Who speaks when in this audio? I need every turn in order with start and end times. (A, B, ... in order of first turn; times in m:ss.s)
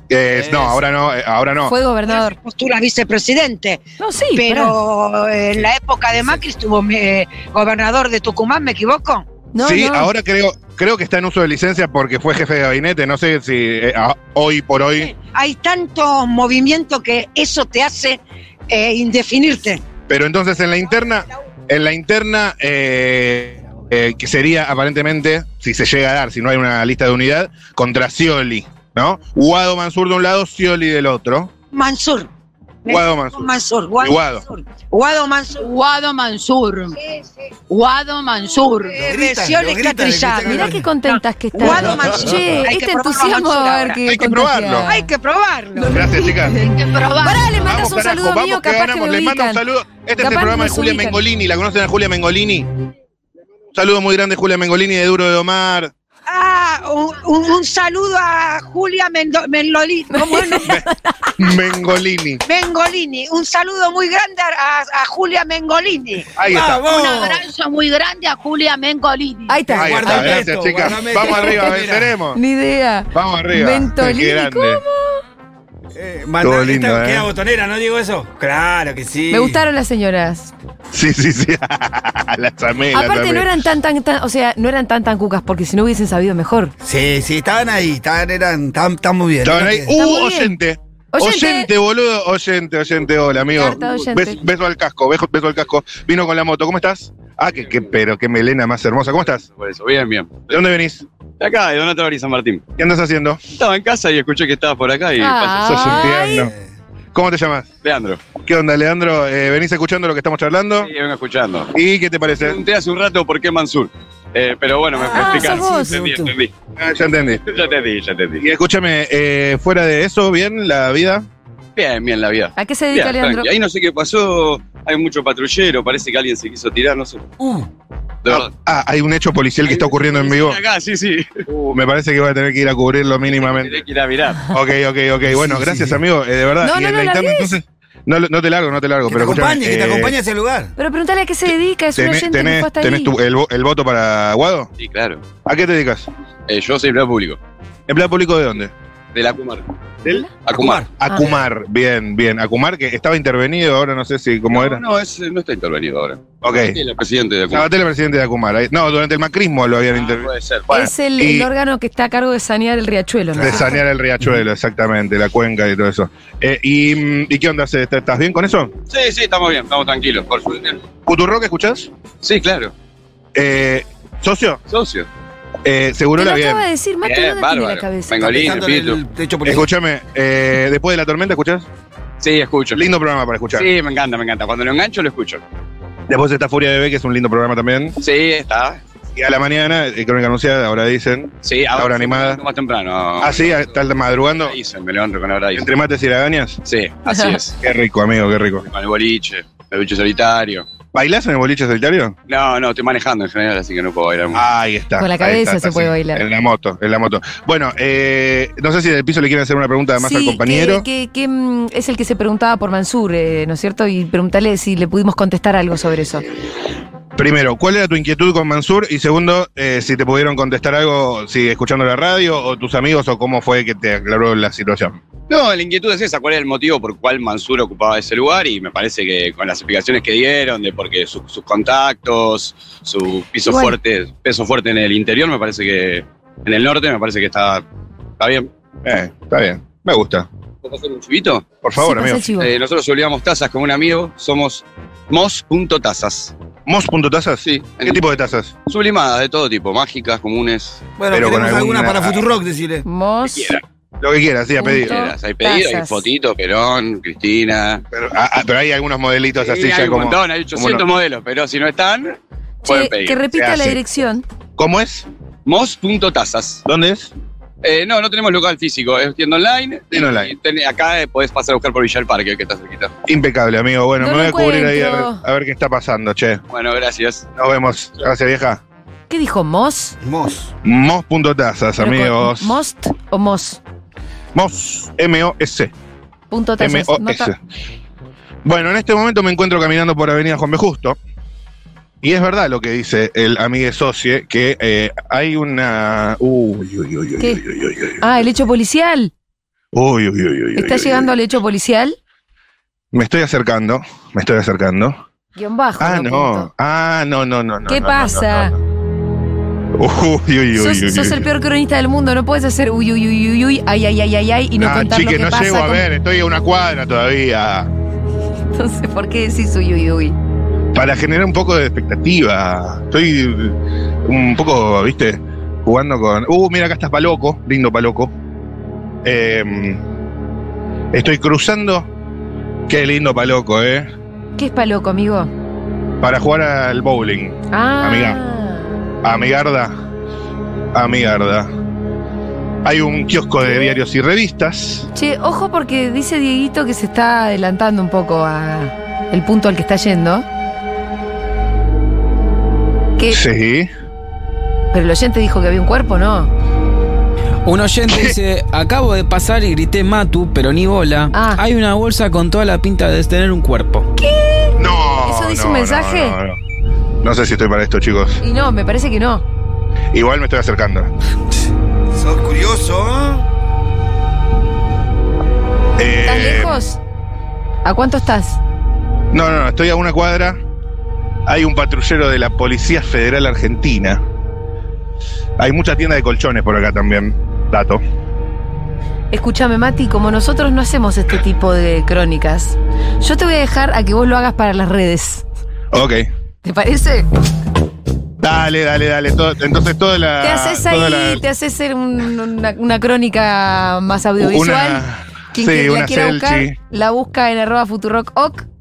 0:00.1-0:01.7 A
0:00.4-0:00.8 B
0:01.6-0:02.4 C
0:02.0-0:03.8 D
0:04.0-0:04.8 C
0:04.3-0:09.2 D
0:06.1-0:06.4 B
0:09.5-0:10.1 C
0:09.6-0:15.1 A
0:15.0-0:19.8 D
0:20.1-0:31.5 A
0:31.7-0:32.3 D
0:32.8-0:35.7 D
0:32.9-0:34.4 A
0:35.6-0:37.0 E
0:37.7-0:39.0 E
0:38.9-0:44.0 D
0:39.0-0:41.0 B
0:40.4-0:45.1 C
0:41.6-0:42.4 B
0:44.0-0:44.9 A
0:44.8-0:46.0 D
0:45.8-0:49.6 C
0:45.9-0:46.6 A
0:46.5-0:47.6 E
0:47.5-0:52.7 A
0:50.2-0:51.2 C
0:53.7-0:55.9 A
0:56.3-1:00.8 D
1:00.1-1:01.5 C
1:01.4-1:02.4 A
1:02.4-1:06.3 D
1:06.4-1:06.9 A
1:06.4-1:07.4 B
1:06.8-1:09.6 E
1:09.5-1:10.5 C
1:09.7-1:12.1 B
1:09.8-1:12.4 A
1:11.2-1:11.8 C
1:12.3-1:15.2 C
1:13.1-1:14.8 A
1:15.9-1:19.6 B
1:16.4-1:17.3 A
1:19.3-1:20.5 C
1:20.9-1:23.6 A
1:22.9-1:26.7 C
1:26.8-1:29.9 B
1:29.4-1:39.4 A
1:29.9-1:30.5 C
1:31.1-1:31.7 C
1:33.6-1:34.4 C
1:39.5-1:40.6 F
1:40.5-1:41.0 A
1:41.4-1:42.6 F
1:42.8-1:43.4 A
1:43.6-1:45.7 F
1:45.2-1:46.5 C
1:45.6-1:46.5 A
1:47.1-1:47.7 A
1:47.8-1:48.3 F
1:48.4-1:50.9 A
1:50.8-1:51.7 F
1:51.7-1:52.6 A
1:52.4-1:56.5 F
1:54.9-1:56.2 B
1:55.1-1:56.2 C
1:56.8-1:57.7 A
1:57.5-1:58.4 F
1:58.4-2:01.2 A
2:01.8-2:07.3 F
2:02.6-2:03.5 C
2:07.4-2:07.7 B
2:08.2-2:08.5 F
2:08.3-2:10.6 A
2:09.6-2:11.4 F
2:11.5-2:13.8 A
2:13.2-2:14.5 F
2:14.5-2:20.1 A
2:15.3-2:16.0 B
2:16.6-2:17.6 C
2:19.1-2:20.7 B
2:20.8-2:23.1 C
2:22.0-2:24.7 A
2:24.8-2:25.2 F
2:25.4-2:26.1 A
2:26.5-2:27.4 F
2:27.9-2:28.7 A
2:29.1-2:29.7 F
2:30.0-2:34.8 A
2:30.4-2:30.8 F
2:30.5-2:30.9 B
2:34.5-2:37.7 F
2:36.4-2:36.8 A
2:37.5-2:41.5 A
2:39.9-2:40.7 F
2:40.7-2:43.8 C
2:43.4-2:43.6 B
2:43.4-2:48.7 A
2:48.9-2:50.8 F
2:51.0-2:51.9 A
2:52.2-2:52.7 F
2:53.3-2:54.6 A
2:54.7-2:55.1 F
2:55.6-2:56.6 A
2:56.2-2:58.4 C
2:57.0-2:59.0 F
2:58.2-2:59.7 B
2:59.4-3:01.7 A
3:02.2-3:02.8 F
3:02.7-3:03.7 A
3:03.5-3:05.4 F
3:06.1-3:08.0 A
3:08.0-3:08.8 F
3:09.2-3:12.4 A
3:11.4-3:13.8 F
3:13.2-3:14.6 A
3:14.4-3:15.7 F
3:15.5-3:16.6 A
3:16.6-3:17.6 F
3:17.1-3:17.4 C
3:17.6-3:18.7 A
3:18.6-3:20.7 F
3:20.9-3:22.2 A
3:22.3-3:24.4 F
3:24.3-3:30.8 A
3:25.0-3:26.2 C
3:30.0-3:36.2 C
3:37.2-3:45.0 A
3:45.3-3:57.6 F
3:53.4-3:53.8 C
3:58.2-3:58.5 F
3:58.8-4:00.3 A
4:00.6-4:01.5 F
4:01.6-4:02.3 A
4:01.8-4:02.5 C
4:02.4-4:06.3 F
4:06.6-4:08.5 A
4:07.4-4:08.0 F
4:08.6-4:10.8 F
4:11.0-4:12.8 B
4:11.1-4:12.2 A
4:12.8-4:13.6 C
4:13.2-4:13.6 F
4:14.0-4:15.0 A
4:14.6-4:16.0 C
4:14.7-4:17.8 F
4:17.9-4:20.9 A
4:19.4-4:19.8 B
4:19.6-4:23.2 F
4:22.6-4:24.2 C
4:23.3-4:23.8 A
4:24.6-4:25.1 A
4:25.4-4:26.6 F
4:26.6-4:27.1 A
4:27.6-4:32.9 F
4:29.9-4:30.3 A
4:33.1-4:36.4 A
4:34.0-4:35.2 C
4:36.5-4:37.2 F
4:37.4-4:38.6 A
4:39.1-4:40.0 C
4:40.0-4:40.5 B
4:40.6-4:42.6 A
4:41.8-4:43.6 C
4:44.3-4:45.7 A
4:46.3-4:47.3 C
4:46.6-4:47.4 A
4:48.4-4:51.0 A
4:52.0-4:58.0 A
4:58.0-4:59.1 C
4:59.7-5:01.1 A
5:00.6-5:02.0 C
5:02.9-5:05.0 A
5:05.4-5:06.5 C
5:05.8-5:08.6 A
5:07.7-5:08.5 C
5:09.8-5:11.2 A
5:10.5-5:15.8 C
5:14.6-5:17.7 A
5:18.5-5:20.2 C
5:20.7-5:28.1 A
5:29.0-5:29.8 A
5:30.9-5:31.9 A
5:32.7-5:33.9 A
5:34.4-5:35.3 C
5:36.0-5:38.2 A
5:37.5-5:38.8 C
5:39.0-5:39.7 A
5:40.7-5:41.5 A
5:42.6-5:44.9 A
5:44.9-5:50.2 C
5:53.0-5:53.2 C
5:53.1-5:53.7 A
5:54.7-5:56.3 C
5:57.4-6:03.9 G
5:57.9-5:58.2 A
6:01.1-6:01.4 C
6:04.0-6:06.2 C
6:04.6-6:06.4 A
6:07.0-6:08.2 A
6:08.2-6:09.2 C
6:09.9-6:10.9 A
6:11.9-6:13.2 B
6:15.8-6:16.6 A
6:16.0-6:16.8 C
6:17.6-6:18.4 C
6:19.1-6:20.4 A
6:21.2-6:24.0 A
6:25.4-6:27.8 A
6:29.1-6:35.2 C
6:35.7-6:36.1 A
6:36.4-6:37.1 C
6:38.2-6:41.2 A
6:40.2-6:48.4 C
6:44.2-6:46.6 A